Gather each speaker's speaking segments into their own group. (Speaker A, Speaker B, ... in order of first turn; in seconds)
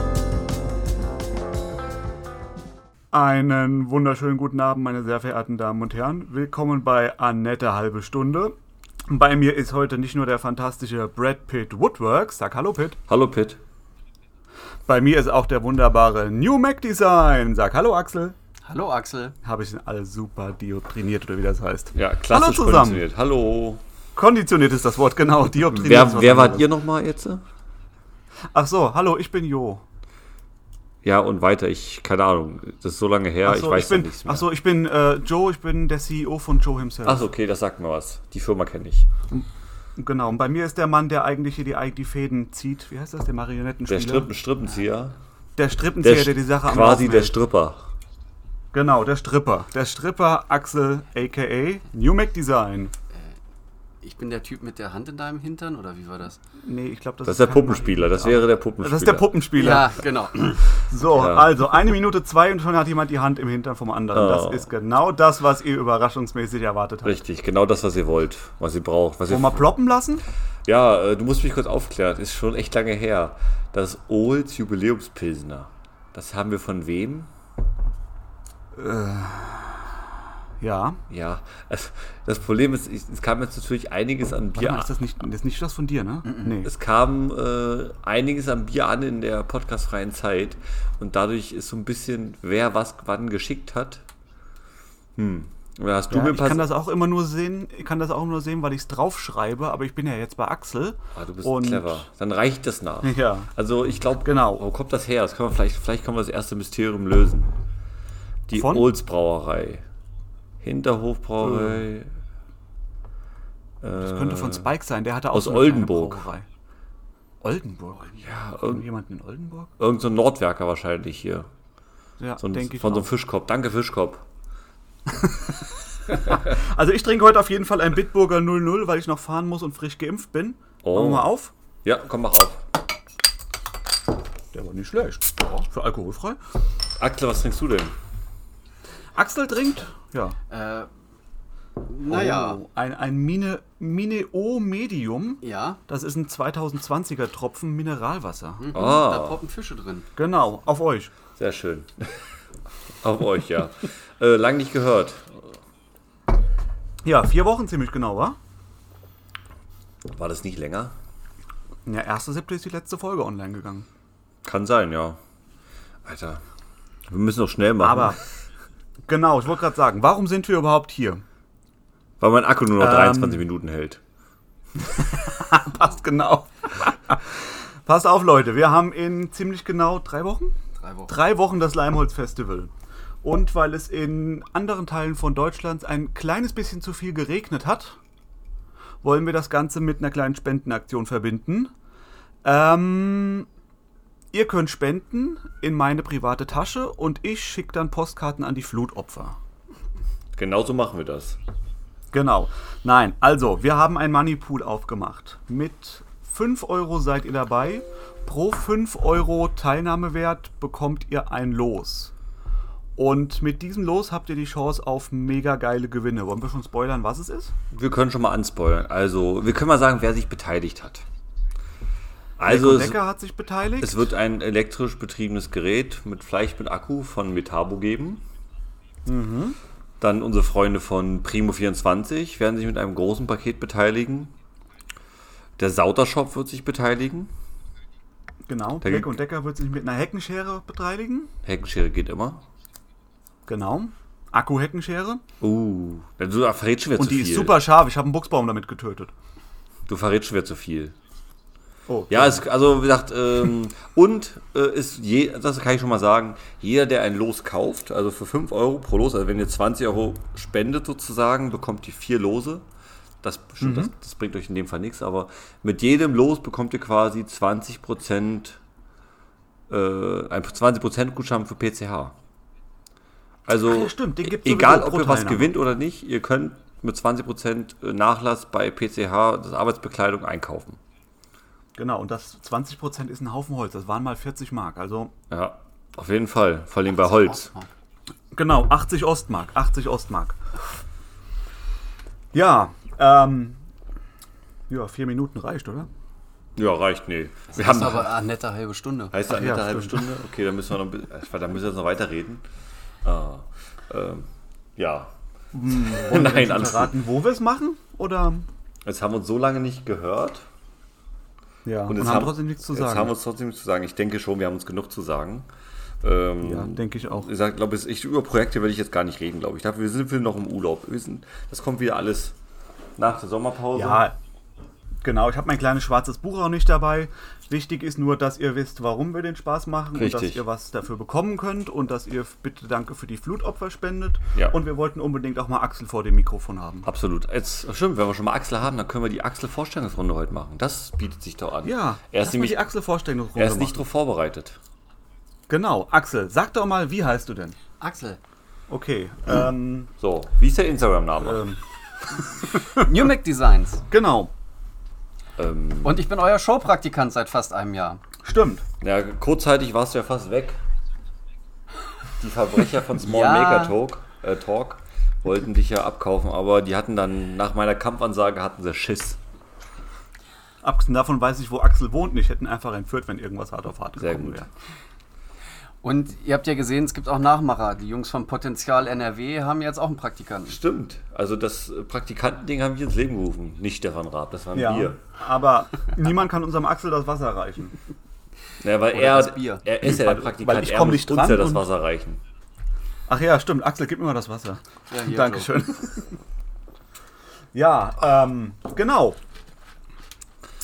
Speaker A: 3.1-8.6, 9.1-13.0, 14.9-18.4, 19.4-23.0, 24.1-26.7, 28.5-29.8, 33.4-37.3, 39.3-44.3, 45.6-47.4, 48.7-52.9, 56.6-60.0, 60.8-67.2, 69.3-70.2, 78.7-81.0, 84.5-86.7, 96.1-102.1, 103.0-103.5, 104.2-104.6, 108.5-108.9, 111.4-111.9, 113.9-116.5, 117.4-119.7, 122.2-123.1, 125.1-131.5, 134.5-136.4, 139.1-140.4, 142.1-148.7, 150.2-151.1, 157.0-158.4, 161.8-163.9, 167.8-168.2, 169.1-171.2, 172.8-173.4, 174.9-180.5, 181.1-182.7, 183.2-188.0, 189.0-191.7, 192.4-193.5, 194.3-199.4, 202.1-212.1, 213.0-217.5, 222.4-224.1, 229.1-229.6, 238.5-241.3, 243.5-245.2, 246.9-249.1, 251.9-252.4, 263.6-263.9, 273.6-275.5, 281.8-285.1, 288.3-290.4, 292.3-293.6, 294.7-295.9, 299.3-300.0, 305.5-308.5, 311.6-313.1, 316.4-317.3, 323.7-324.1, 325.0-336.9, 341.6-343.8, 345.5-347.6, 348.7-349.9, 351.2-351.6, 353.9-354.3, 358.2-358.6, 370.6-374.5, 384.5-387.7, 389.8-391.6, 393.1-396.1, 397.5-399.2
Speaker B: 13.1-13.6, 21.9-23.8, 25.5-27.4, 31.0-34.5, 37.0-39.1, 43.9-45.2, 46.0-47.9, 57.2-59.4, 61.1-61.6, 64.1-64.7, 67.0-69.7, 70.7-77.3, 81.1-84.9, 86.6-94.0, 95.2-96.7, 101.1-107.5, 108.5-109.8, 110.6-112.1, 113.8-114.7, 115.3-116.2, 118.2-118.8, 119.8-121.5, 122.4-124.3, 130.8-131.3, 131.8-132.6, 137.0-137.9, 148.7-149.4, 151.3-152.3, 153.0-155.5, 160.0-160.9, 164.4-165.2, 166.0-166.4, 167.1-168.2, 172.2-174.0, 200.3-201.4, 217.7-221.0, 222.4-223.0, 223.8-228.2, 230.0-234.3, 235.6-237.3, 238.8-239.2, 241.4-242.4, 245.4-247.6, 249.9-250.9, 252.1-262.7, 263.2-268.6, 269.7-272.1, 273.5-280.8, 285.3-287.5, 296.6-298.1, 299.1-302.4, 303.0-305.1, 305.7-306.9, 308.8-310.5, 311.9-315.5, 316.0-322.3, 323.0-324.1, 329.9-330.4, 336.8-342.7, 343.3-344.6, 350.0-351.4, 355.4-356.0, 358.8-360.6, 362.2-369.2, 374.0-374.5, 380.4-385.0, 388.6-392.2
Speaker C: 18.6-19.4, 54.0-56.4, 59.5-60.6, 140.5-140.9, 141.8-142.6, 145.4-145.8, 148.6-150.1, 180.8-181.1, 287.1-287.7, 297.5-299.1, 347.8-348.2, 352.7-353.8, 355.8-358.0, 363.0-363.8, 375.8-380.6, 388.9-389.6, 394.9-395.5